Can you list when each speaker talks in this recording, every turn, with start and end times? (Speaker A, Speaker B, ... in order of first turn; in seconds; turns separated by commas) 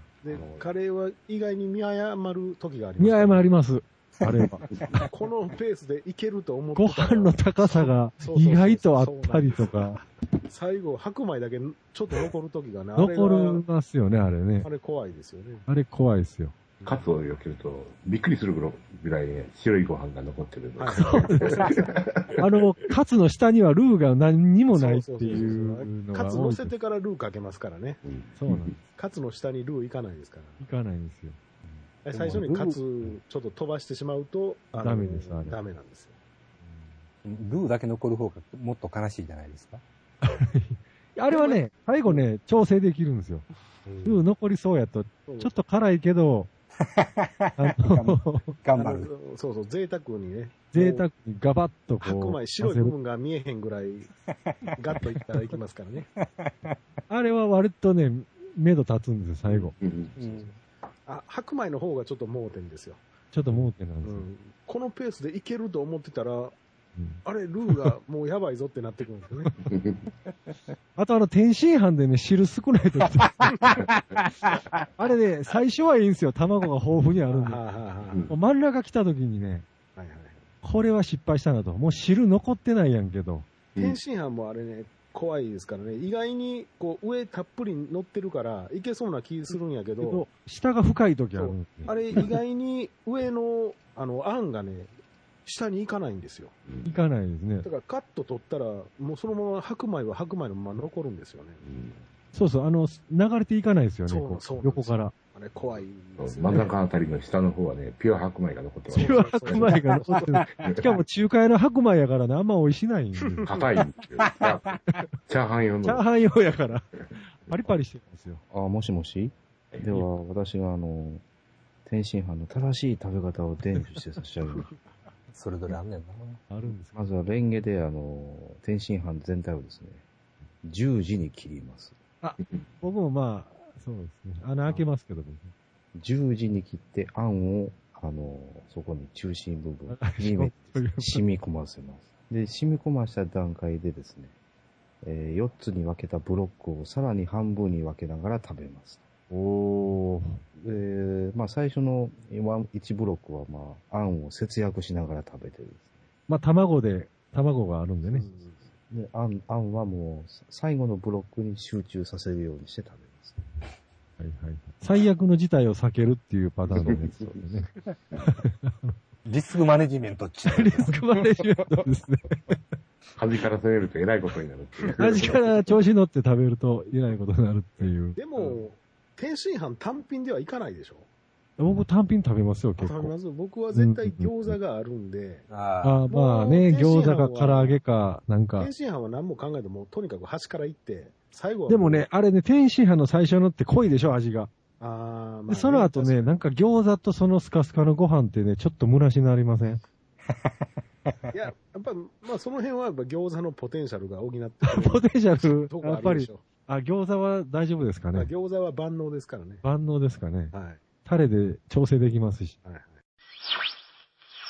Speaker A: 0.2-3.5, Speaker B: 3.0-4.7, Speaker C: 4.2-5.0, Speaker A: 5.0-13.6, Speaker B: 6.8-10.0, Speaker B: 12.9-14.7, Speaker A: 14.6-15.7, Speaker B: 15.7-16.5, Speaker A: 16.8-17.1, Speaker D: 16.9-22.5, Speaker A: 20.8-22.0, Speaker B: 20.9-21.6, Speaker B: 22.4-26.7, Speaker A: 24.7-28.0, Speaker D: 28.0-28.8, Speaker B: 28.4-28.8, Speaker A: 28.9-30.6, Speaker B: 30.6-31.4, Speaker A: 32.0-36.1, Speaker C: 32.1-32.8, Speaker B: 34.8-35.6, Speaker B: 36.6-36.9, Speaker C: 37.2-39.8, Speaker B: 40.2-43.5, Speaker A: 41.3-42.2, Speaker A: 43.9-44.2, Speaker B: 44.0-46.5, Speaker A: 45.3-45.5, Speaker C: 46.8-49.1, Speaker B: 47.6-48.5, Speaker A: 48.7-51.0, Speaker B: 50.7-52.9, Speaker A: 52.0-54.1, Speaker C: 54.3-55.4, Speaker A: 54.8-56.1, Speaker C: 56.0-56.8, Speaker B: 57.1-59.8, Speaker D: 59.5-60.4, Speaker C: 60.2-60.5, Speaker A: 61.0-63.0, Speaker B: 63.3-64.2, Speaker A: 64.0-66.5, Speaker B: 67.0-67.2, Speaker A: 67.2-69.5, Speaker D: 69.6-70.0, Speaker B: 71.0-73.7, Speaker C: 74.2-74.8, Speaker B: 75.0-77.6, Speaker A: 77.3-78.2, Speaker D: 78.1-78.3, Speaker B: 78.3-79.7, Speaker A: 80.0-80.4, Speaker B: 80.6-83.5, Speaker A: 83.8-90.2, Speaker B: 90.0-91.7, Speaker A: 91.3-94.9, Speaker D: 91.8-92.2, Speaker A: 95.4-96.5, Speaker D: 96.7-97.0, Speaker B: 96.8-97.7, Speaker A: 97.6-101.6, Speaker D: 101.6-102.0, Speaker B: 102.3-105.1, Speaker A: 104.1-106.7, Speaker D: 105.6-109.8, Speaker A: 108.9-110.2, Speaker B: 108.9-113.5, Speaker C: 109.9-110.9, Speaker D: 113.5-114.7, Speaker C: 114.2-114.9, Speaker D: 115.3-117.0, Speaker B: 115.8-118.4, Speaker E: 118.5-121.2, Speaker E: 121.8-124.7, Speaker C: 125.3-126.4, Speaker B: 126.5-127.0, Speaker E: 126.9-130.0, Speaker E: 130.6-131.9, Speaker B: 132.2-135.5, Speaker E: 135.9-144.3, Speaker B: 139.9-141.2, Speaker E: 145.0-149.0, Speaker B: 149.3-150.4, Speaker E: 150.6-155.9, Speaker B: 156.3-158.3, Speaker A: 158.1-158.7, Speaker E: 158.9-163.4, Speaker B: 164.2-167.7, Speaker D: 166.7-167.4, Speaker B: 168.2-168.9, Speaker C: 169.2-171.0, Speaker B: 170.5-172.6, Speaker D: 173.2-175.5, Speaker A: 174.8-175.6, Speaker B: 175.0-178.2, Speaker A: 178.2-181.1, Speaker B: 181.6-183.1, Speaker A: 182.8-185.4, Speaker B: 183.7-184.5, Speaker C: 185.5-186.0, Speaker B: 185.8-188.7, Speaker A: 186.1-187.8, Speaker A: 188.6-192.1, Speaker B: 191.7-194.5, Speaker A: 194.8-196.3, Speaker B: 195.5-199.8, Speaker A: 201.3-205.1, Speaker B: 204.6-208.3, Speaker A: 205.7-206.4, Speaker A: 208.1-209.6, Speaker B: 209.6-212.6, Speaker A: 210.5-210.8, Speaker A: 212.6-213.0